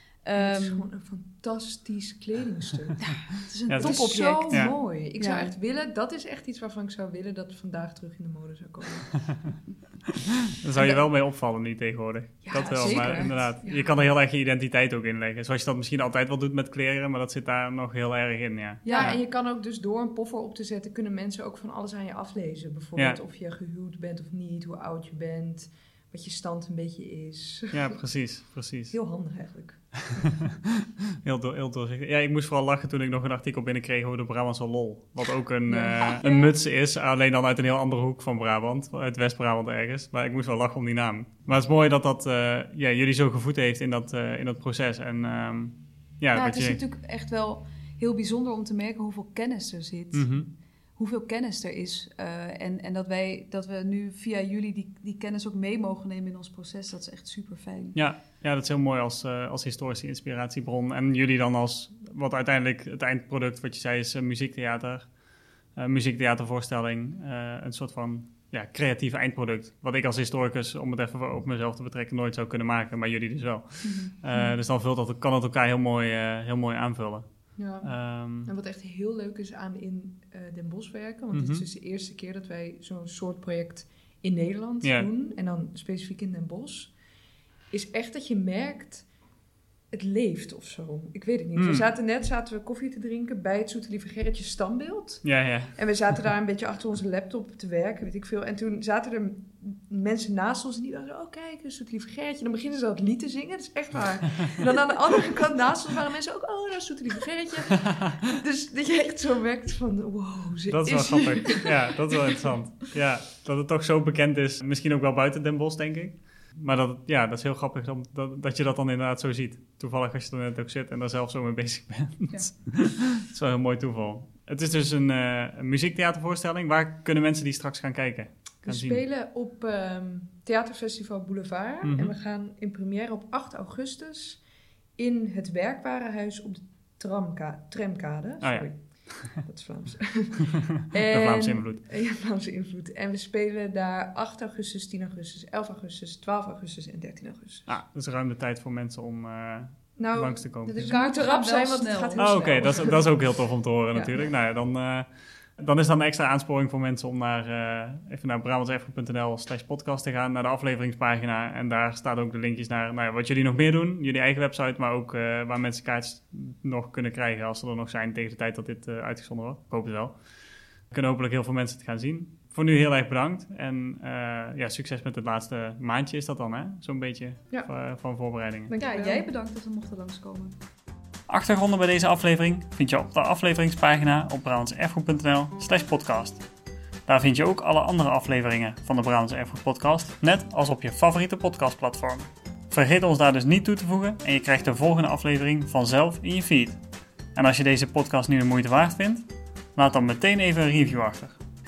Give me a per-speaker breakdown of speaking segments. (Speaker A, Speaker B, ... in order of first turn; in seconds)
Speaker A: 0.2-0.9, 3.0-5.5, 12.7-13.5, 18.8-19.2, 46.3-58.0, 73.8-74.5, 150.8-152.5, 178.8-180.6
Speaker B: 0.4-3.0, 3.8-9.1, 12.4-14.0, 18.9-28.0, 28.9-30.2, 35.7-36.5, 77.6-86.9, 87.7-89.1, 89.9-111.8, 128.7-134.4, 135.0-147.7, 150.0-153.3, 178.7-179.3
Speaker C: 3.7-4.7, 10.6-19.2, 27.7-29.0, 31.2-46.8, 50.1-50.5, 58.0-65.2, 65.7-78.5, 81.3-81.6, 84.8-85.1, 91.6-91.9, 95.2-95.8, 110.7-129.0, 131.8-132.1, 138.4-139.4, 140.9-141.8, 147.7-150.9, 152.2-170.2, 170.9-178.7, 181.3-186.4, 187.1-196.8, 197.3-201.4